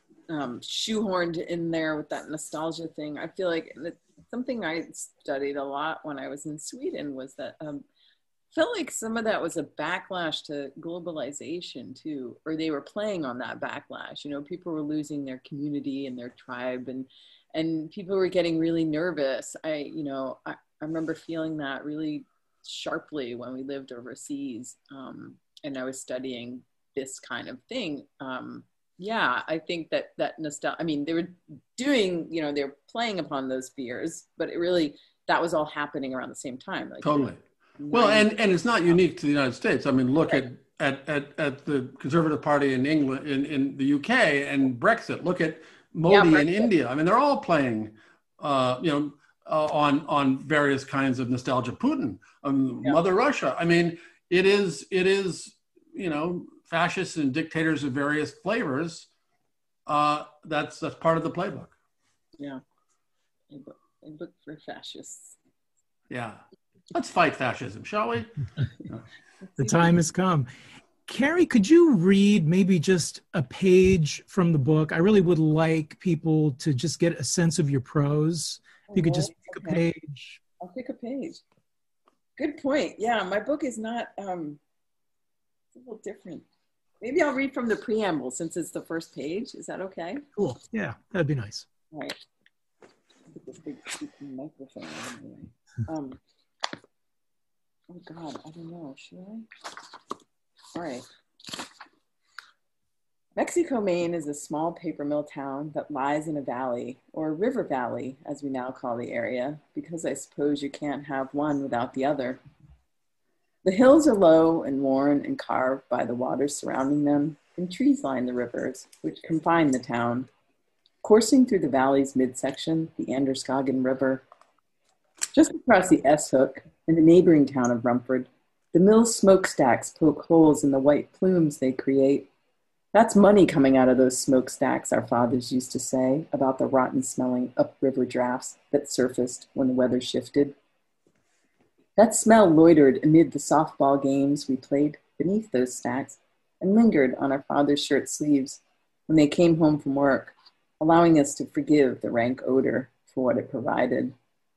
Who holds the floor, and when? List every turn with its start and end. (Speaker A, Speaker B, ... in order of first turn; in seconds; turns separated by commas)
Speaker A: 0.3-7.8, Speaker A: 8.5-37.3, Speaker B: 37.0-37.4, Speaker A: 37.8-38.3, Speaker B: 37.9-59.1, Speaker A: 46.1-46.7, Speaker B: 59.9-61.7, Speaker A: 63.5-65.3, Speaker B: 66.1-66.4, Speaker B: 66.9-68.3, Speaker A: 69.4-69.9, Speaker C: 69.6-70.5, Speaker C: 71.1-80.4, Speaker A: 78.9-79.8, Speaker A: 80.6-81.4, Speaker A: 82.4-84.6, Speaker A: 85.7-86.5, Speaker A: 87.0-90.2, Speaker C: 90.3-91.7, Speaker A: 91.9-92.2, Speaker A: 93.3-96.2, Speaker A: 97.9-99.5, Speaker A: 100.7-101.0, Speaker A: 103.4-112.4, Speaker A: 113.6-120.3, Speaker A: 121.0-124.2, Speaker A: 125.3-132.3, Speaker A: 132.9-140.5, Speaker A: 142.0-154.1